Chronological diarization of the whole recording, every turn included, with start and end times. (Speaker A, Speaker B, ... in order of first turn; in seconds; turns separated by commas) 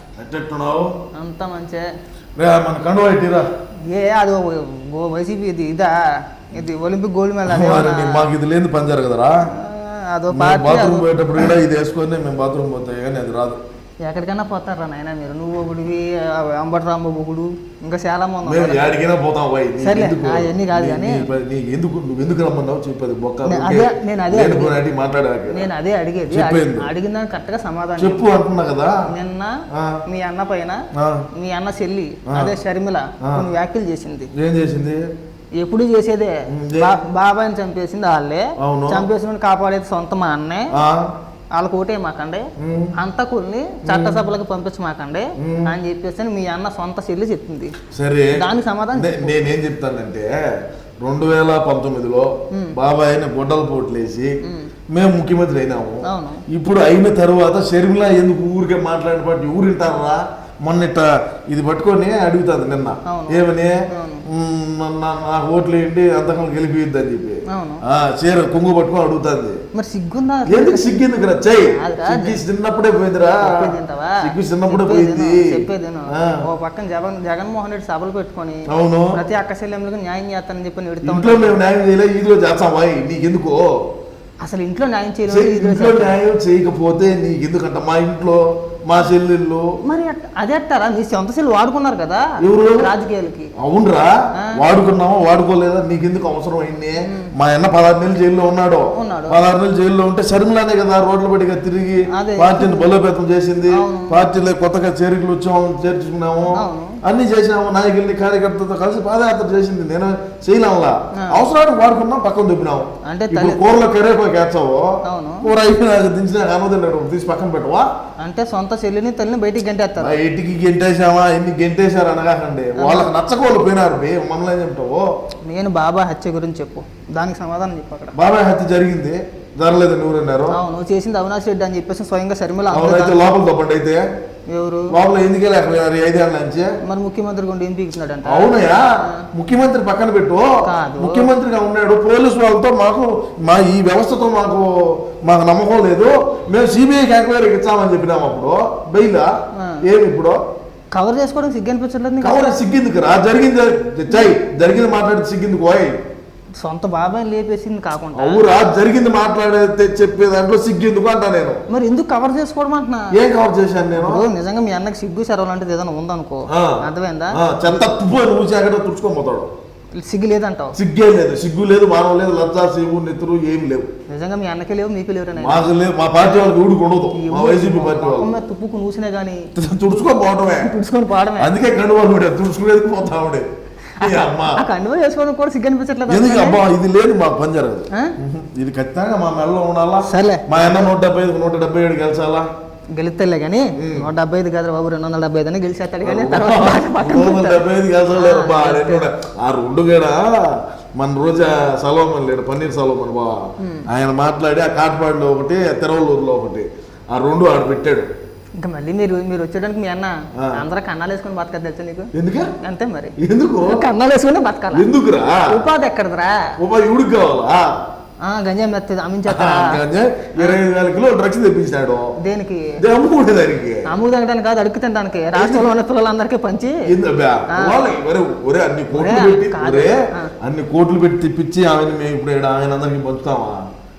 Speaker A: 0.2-0.9, Speaker B: 1.1-1.9, Speaker A: 2.4-3.5, Speaker B: 3.9-6.0, Speaker B: 6.5-8.3, Speaker A: 7.5-9.5, Speaker B: 9.5-11.2, Speaker A: 10.3-13.6, Speaker B: 14.0-18.9, Speaker A: 18.4-25.7, Speaker B: 19.8-21.3, Speaker B: 23.4-24.8, Speaker B: 25.5-28.2, Speaker A: 26.3-26.9, Speaker A: 28.0-29.1, Speaker B: 29.1-29.6, Speaker A: 29.7-30.0, Speaker B: 30.1-30.8, Speaker A: 30.9-31.2, Speaker B: 31.4-34.3, Speaker A: 32.3-32.5, Speaker A: 34.4-35.1, Speaker B: 35.6-40.7, Speaker A: 36.5-37.0, Speaker A: 38.6-39.1, Speaker A: 40.8-41.1, Speaker B: 41.5-47.8, Speaker A: 42.6-43.0, Speaker A: 43.9-44.2, Speaker A: 45.4-45.7, Speaker A: 47.9-48.4, Speaker B: 48.4-49.4, Speaker A: 48.9-50.3, Speaker A: 51.0-54.4, Speaker B: 54.4-54.7, Speaker A: 54.9-63.8, Speaker B: 56.1-56.4, Speaker B: 63.1-64.2, Speaker A: 64.3-69.6, Speaker B: 67.5-67.8, Speaker B: 69.8-72.4, Speaker A: 70.5-76.4, Speaker B: 73.4-81.6, Speaker A: 78.7-79.2, Speaker A: 81.0-83.7, Speaker B: 84.4-86.2, Speaker A: 85.3-89.7, Speaker B: 89.8-93.5, Speaker A: 92.4-92.9, Speaker A: 93.6-117.9, Speaker B: 97.0-97.3, Speaker B: 98.9-99.4, Speaker B: 102.1-102.9, Speaker B: 103.7-104.2, Speaker B: 106.5-107.0, Speaker B: 111.2-111.4, Speaker B: 113.1-113.7, Speaker B: 115.0-115.5, Speaker B: 118.2-120.2, Speaker A: 120.0-125.1, Speaker B: 122.8-123.1, Speaker B: 125.5-128.2, Speaker A: 128.2-130.6, Speaker B: 130.5-133.2, Speaker A: 132.7-134.1, Speaker B: 134.5-135.0, Speaker A: 134.9-136.7, Speaker B: 136.8-139.2, Speaker A: 138.2-149.3, Speaker B: 140.6-141.3, Speaker B: 149.6-149.8, Speaker A: 149.8-150.4, Speaker B: 150.9-152.6, Speaker A: 152.2-156.0, Speaker B: 156.6-158.6, Speaker A: 158.1-161.6, Speaker B: 161.7-163.2, Speaker A: 163.1-164.2, Speaker B: 164.0-167.4, Speaker A: 166.5-166.8, Speaker A: 167.3-169.5, Speaker B: 170.0-170.8, Speaker A: 170.8-173.9, Speaker B: 174.1-175.7, Speaker A: 175.4-178.3, Speaker B: 177.2-179.5, Speaker A: 179.6-180.8, Speaker B: 180.5-181.6, Speaker A: 181.4-183.5, Speaker B: 184.0-186.6, Speaker A: 184.0-184.6, Speaker A: 186.1-192.5, Speaker B: 190.1-190.9, Speaker B: 192.9-199.1, Speaker A: 193.8-194.1, Speaker A: 196.0-208.1, Speaker B: 203.6-203.9, Speaker B: 208.6-214.9, Speaker A: 212.1-212.5, Speaker A: 213.2-213.9, Speaker A: 214.7-215.7, Speaker B: 215.5-216.5, Speaker A: 216.6-217.8, Speaker B: 218.2-219.8, Speaker A: 219.3-222.1, Speaker B: 222.2-222.8, Speaker A: 222.8-223.9, Speaker B: 223.9-226.8, Speaker A: 225.3-225.7, Speaker A: 226.9-233.6, Speaker B: 227.5-227.8, Speaker B: 228.9-230.3